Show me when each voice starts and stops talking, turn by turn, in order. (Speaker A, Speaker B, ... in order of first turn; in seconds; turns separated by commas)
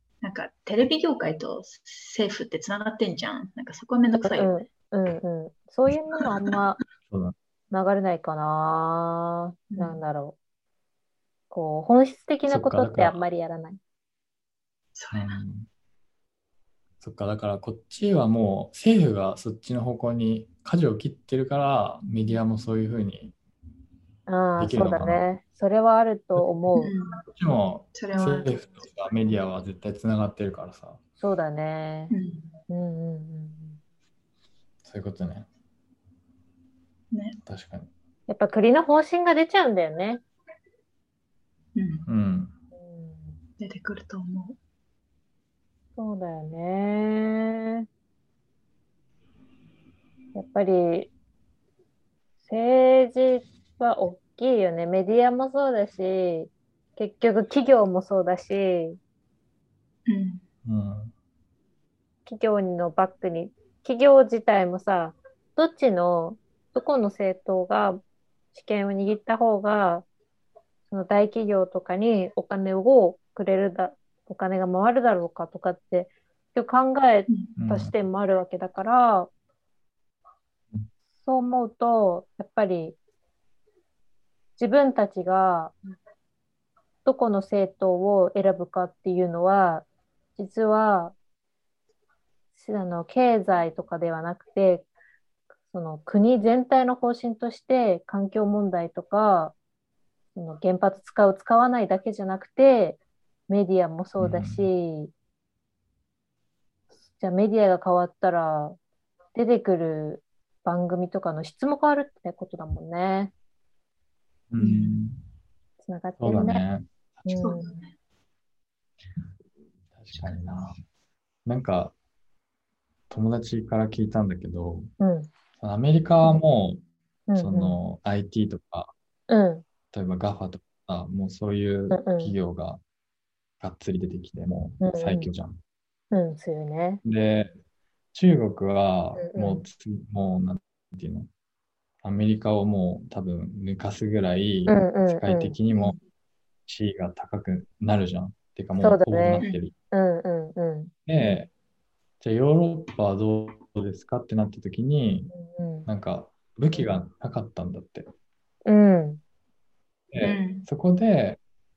Speaker A: 0.2-4.5, Speaker B: 4.2-6.8, Speaker C: 7.1-7.3, Speaker B: 7.7-10.3, Speaker A: 9.7-10.0, Speaker B: 11.5-13.8, Speaker C: 12.4-13.2, Speaker A: 14.9-15.4, Speaker C: 15.1-15.7, Speaker C: 17.0-23.3, Speaker B: 24.3-26.9, Speaker C: 24.6-25.2, Speaker A: 26.8-27.2, Speaker C: 27.3-31.0, Speaker A: 27.9-28.5, Speaker B: 31.2-32.1, Speaker A: 32.1-32.5, Speaker B: 32.7-33.8, Speaker C: 34.8-35.5, Speaker A: 37.1-37.4, Speaker C: 37.5-37.9, Speaker B: 38.3-40.2, Speaker A: 41.8-42.1, Speaker C: 42.1-42.5, Speaker B: 42.7-43.3, Speaker A: 43.6-44.6, Speaker B: 46.0-47.9, Speaker B: 50.3-51.1, Speaker B: 52.5-59.0, Speaker A: 60.1-60.4, Speaker C: 60.6-61.1, Speaker B: 62.2-68.0, Speaker B: 68.5-70.0, Speaker B: 70.9-79.3, Speaker A: 77.3-77.5, Speaker C: 77.6-77.9, Speaker B: 81.2-83.0, Speaker B: 84.6-85.7, Speaker B: 87.0-89.8, Speaker B: 90.4-91.1, Speaker B: 92.5-94.8, Speaker B: 95.7-99.5, Speaker B: 100.3-105.1, Speaker C: 104.2-104.7, Speaker B: 107.1-108.8, Speaker B: 109.3-113.3, Speaker C: 114.5-115.2, Speaker A: 114.6-115.1, Speaker B: 115.8-116.6, Speaker C: 116.2-116.9, Speaker B: 117.2-117.7, Speaker A: 117.3-117.9, Speaker C: 119.9-120.8, Speaker C: 121.4-121.9, Speaker C: 123.1-124.9, Speaker B: 125.0-125.3, Speaker C: 125.6-126.8, Speaker B: 127.3-127.8, Speaker C: 127.3-128.9, Speaker B: 129.3-129.6, Speaker C: 129.9-132.8, Speaker B: 131.9-132.3, Speaker C: 133.6-135.6, Speaker B: 134.8-135.3, Speaker B: 136.1-137.0, Speaker C: 137.0-137.5, Speaker C: 138.1-141.3, Speaker B: 139.2-139.6, Speaker C: 142.0-146.0, Speaker B: 144.7-145.6, Speaker C: 146.7-149.7, Speaker B: 148.8-150.9, Speaker C: 151.1-151.5, Speaker C: 152.2-155.3, Speaker B: 155.3-155.9, Speaker C: 155.8-158.1, Speaker B: 158.6-159.2, Speaker C: 160.1-161.4, Speaker A: 160.2-160.7